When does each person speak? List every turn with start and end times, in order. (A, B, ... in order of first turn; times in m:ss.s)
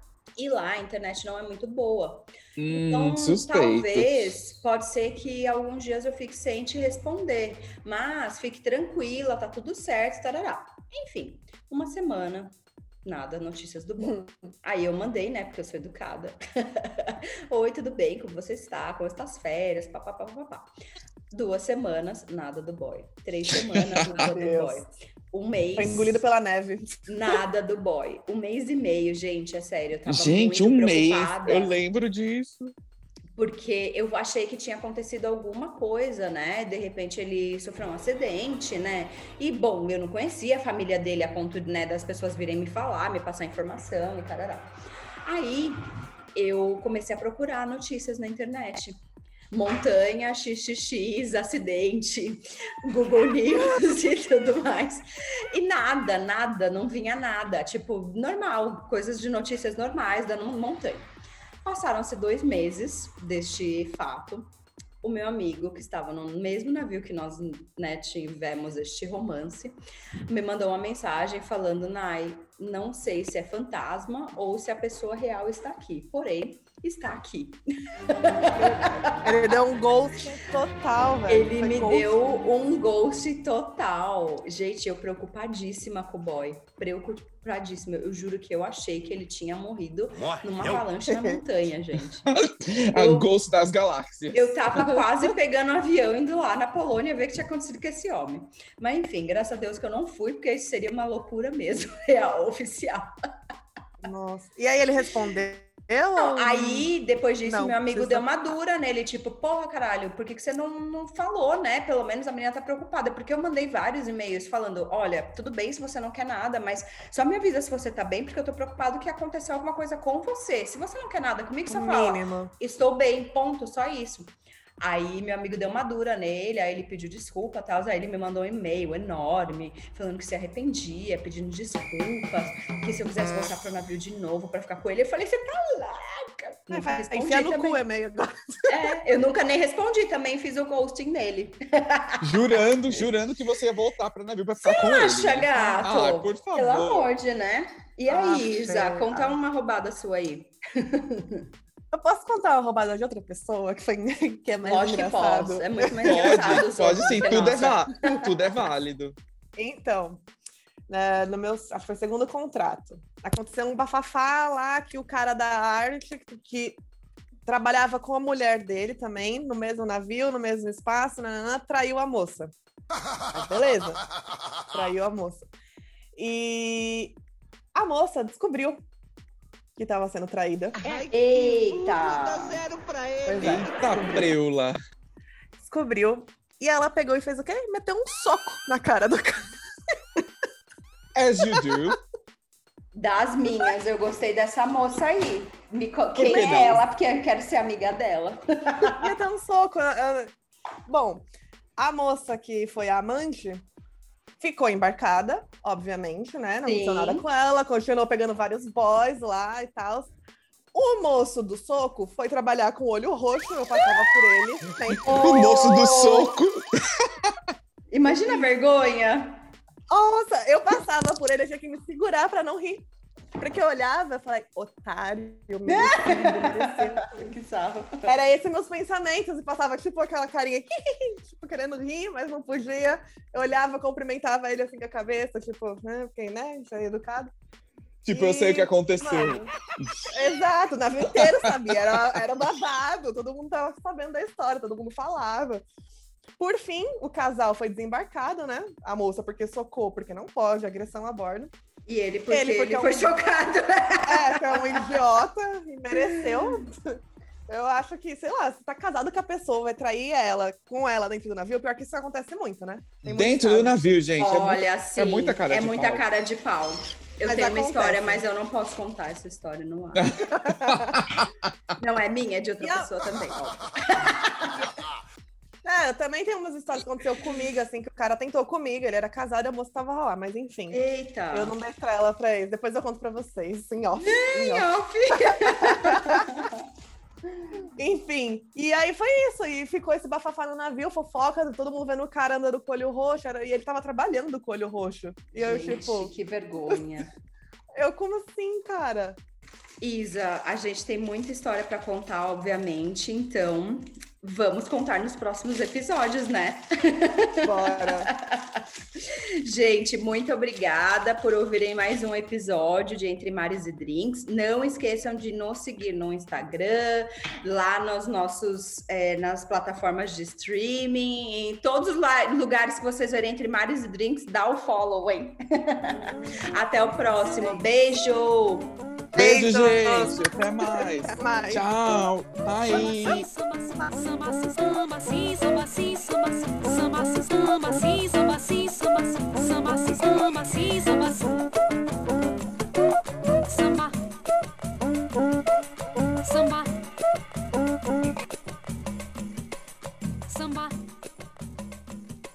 0:00.4-0:20.7 A
0:02.6-0:04.3 B
0:21.3-0:26.2 A
0:23.6-0:24.0 B
0:24.1-0:24.8 C
0:25.8-0:27.4 C
0:27.1-0:31.7 A
0:30.1-0:32.7 B
0:33.4-0:49.0 A
0:49.5-1:01.1 A
1:01.6-1:04.5 A
1:05.0-1:19.2 A
1:18.5-1:22.3 C
1:21.3-1:32.3 A
1:31.1-1:31.4 C
1:32.3-1:35.0 B
1:32.9-1:33.3 A
1:34.3-1:43.1 A
1:44.0-1:46.9 C
1:46.2-2:17.8 A
1:47.5-1:48.2 C
2:01.7-2:02.5 C
2:16.7-2:18.8 C
2:18.7-2:22.2 A
2:22.2-2:27.1 B
2:24.6-2:31.4 A
2:28.1-2:29.4 C
2:31.9-2:37.7 C
2:34.6-2:37.9 A
2:36.0-2:39.2 B
2:39.6-2:40.2 C
2:40.9-2:46.8 C
2:47.5-2:52.5 C
2:53.3-2:54.0 C
2:54.7-2:55.5 C
2:56.2-2:57.2 C
2:57.7-2:58.8 C
2:59.8-3:01.0 C
3:00.8-3:04.2 D
3:01.1-3:02.6 A
3:03.3-3:04.3 C
3:03.4-3:04.8 B
3:05.6-3:09.5 C
3:11.2-3:12.0 B
3:12.9-3:19.1 A
3:16.2-3:16.8 B
3:16.2-3:16.6 C
3:18.9-3:20.3 C
3:20.9-3:21.2 C
3:21.8-3:23.6 C
3:24.4-3:30.1 C
3:26.6-3:27.2 A
3:30.7-3:35.9 C
3:35.0-3:37.4 B
3:35.1-3:36.3 A
3:37.9-3:39.5 A
3:38.1-3:38.5 C
3:39.9-3:47.3 C
3:45.7-3:48.1 A
3:48.1-3:57.3 C
3:58.0-4:00.1 B
3:58.1-3:59.5 C
4:00.1-4:05.6 C
4:01.1-4:01.8 B
4:06.4-4:11.5 C
4:11.9-4:14.9 A
4:12.3-4:13.2 C
4:14.1-4:23.8 C
4:16.0-4:16.5 A
4:23.1-4:26.0 B
4:24.2-4:30.2 A
4:27.2-4:28.2 C
4:30.0-4:31.3 B
4:30.4-4:31.0 C
4:31.8-4:34.7 A
4:32.6-4:32.9 C
4:35.6-4:40.8 C
4:40.7-4:41.5 A
4:41.3-4:46.3 C
4:44.0-4:46.6 A
4:47.7-4:56.1 C
4:55.4-4:57.1 A
4:57.7-4:59.2 C
4:59.8-5:28.7 A
5:07.4-5:08.1 C
5:29.1-5:33.3 B
5:29.2-5:31.7 C
5:32.7-5:41.4 E
5:43.5-5:44.0 E
5:46.2-5:46.7 E
5:50.3-5:50.8 E